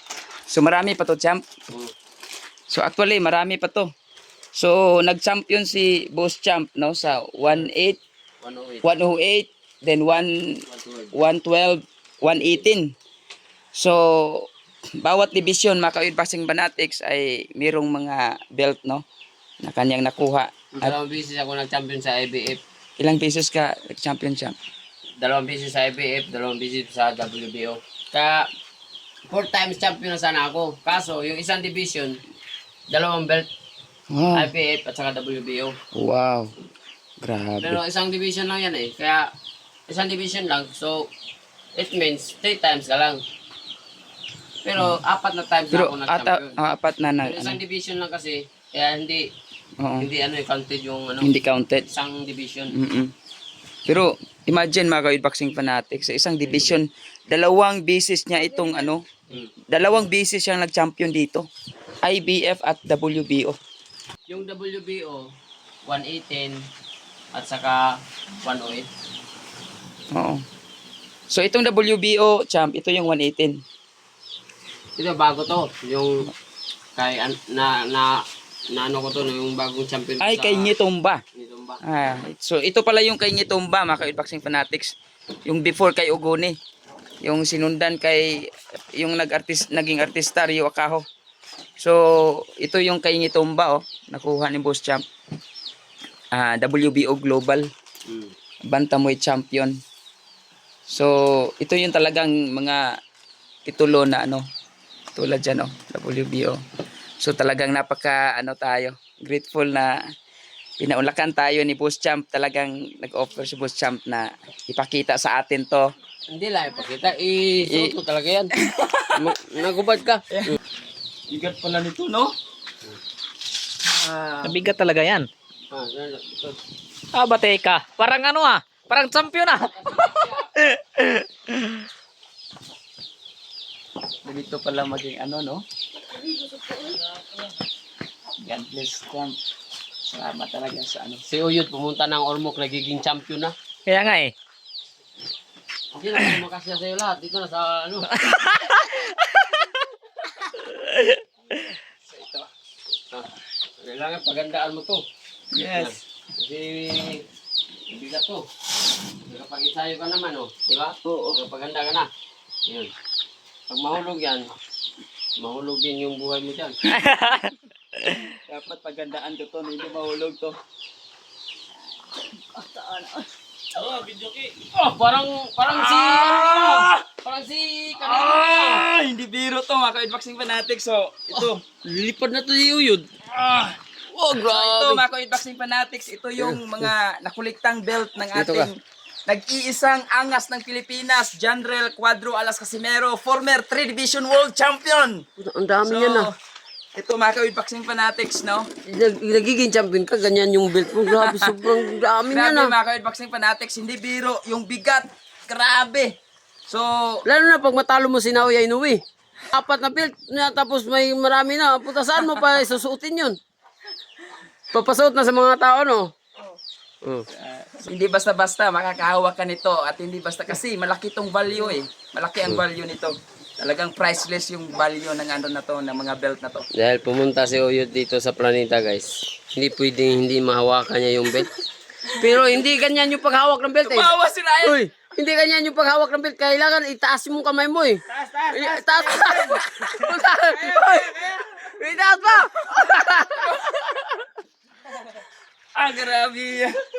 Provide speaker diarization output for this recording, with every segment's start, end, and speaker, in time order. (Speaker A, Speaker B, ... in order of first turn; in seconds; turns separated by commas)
Speaker A: 0.5-1.4, Speaker A: 2.7-3.9, Speaker A: 4.5-8.0, Speaker B: 8.4-8.9, Speaker A: 8.8-10.3, Speaker B: 10.7-11.1, Speaker A: 11.1-12.9, Speaker A: 13.8-14.5, Speaker A: 15.0-19.1, Speaker A: 19.6-21.0, Speaker B: 20.8-22.6, Speaker A: 23.0-24.6, Speaker B: 25.2-28.5, Speaker B: 29.3-32.2, Speaker B: 32.9-33.5, Speaker A: 34.1-34.5, Speaker B: 34.3-35.8, Speaker A: 36.0-36.5, Speaker A: 37.2-37.8, Speaker B: 37.6-39.3, Speaker B: 39.9-41.1, Speaker B: 41.8-43.2, Speaker B: 44.6-46.6, Speaker A: 45.7-47.6, Speaker B: 47.2-49.3, Speaker A: 49.8-50.1, Speaker B: 50.0-51.3, Speaker A: 51.2-51.9, Speaker B: 51.9-52.8, Speaker A: 52.7-53.1, Speaker A: 53.9-59.0, Speaker B: 56.5-56.8, Speaker A: 59.7-61.5, Speaker A: 62.0-63.6, Speaker B: 64.3-65.2, Speaker B: 65.8-66.6, Speaker B: 67.3-67.9, Speaker B: 68.4-68.9, Speaker A: 70.1-70.4, Speaker A: 71.3-73.6, Speaker B: 75.0-76.3, Speaker B: 77.0-78.2, Speaker B: 78.7-80.7, Speaker A: 80.2-81.2, Speaker B: 81.3-81.8, Speaker A: 81.8-84.9, Speaker A: 85.5-86.6, Speaker A: 87.2-88.4, Speaker A: 89.0-91.0, Speaker A: 91.8-95.0, Speaker A: 96.3-97.7, Speaker B: 98.1-98.3, Speaker A: 98.7-99.8, Speaker A: 100.9-102.8, Speaker A: 103.7-104.4, Speaker A: 105.2-106.6, Speaker A: 107.2-110.0, Speaker A: 110.8-115.9, Speaker B: 116.3-118.5, Speaker A: 117.7-118.0, Speaker A: 118.6-119.2, Speaker B: 119.2-120.6, Speaker A: 121.3-122.3, Speaker A: 123.8-124.6, Speaker C: 124.4-125.3, Speaker B: 125.7-126.6, Speaker C: 127.1-131.8, Speaker B: 129.7-130.5, Speaker A: 134.2-135.7, Speaker A: 138.4-139.4, Speaker A: 140.1-141.2, Speaker B: 141.3-143.5, Speaker C: 143.9-144.3, Speaker B: 145.9-148.1, Speaker C: 148.1-149.7, Speaker C: 150.7-151.7, Speaker A: 152.1-152.5, Speaker B: 153.8-155.0, Speaker A: 155.5-155.9, Speaker B: 155.7-157.2, Speaker B: 157.9-158.4, Speaker B: 159.3-162.1, Speaker A: 161.0-161.4, Speaker B: 162.7-162.9, Speaker B: 163.7-164.5, Speaker B: 165.4-166.8, Speaker C: 166.9-167.5, Speaker A: 168.4-170.6, Speaker A: 172.6-173.2, Speaker A: 173.8-174.4, Speaker B: 174.7-178.9, Speaker A: 175.7-177.0, Speaker A: 178.0-181.6, Speaker B: 181.3-183.1, Speaker A: 183.4-183.8, Speaker B: 184.1-185.0, Speaker A: 184.3-195.2, Speaker B: 186.4-186.9, Speaker B: 188.3-188.7, Speaker B: 195.4-196.3, Speaker A: 195.8-196.3, Speaker A: 197.0-198.7, Speaker B: 198.9-202.7, Speaker A: 201.1-206.2, Speaker A: 206.7-207.2, Speaker B: 207.3-209.0, Speaker B: 209.5-213.4, Speaker B: 214.7-216.1, Speaker A: 217.4-226.7, Speaker B: 226.8-231.5, Speaker B: 232.1-243.6, Speaker A: 233.8-234.8, Speaker A: 238.1-241.7, Speaker A: 242.8-243.9, Speaker A: 245.8-246.8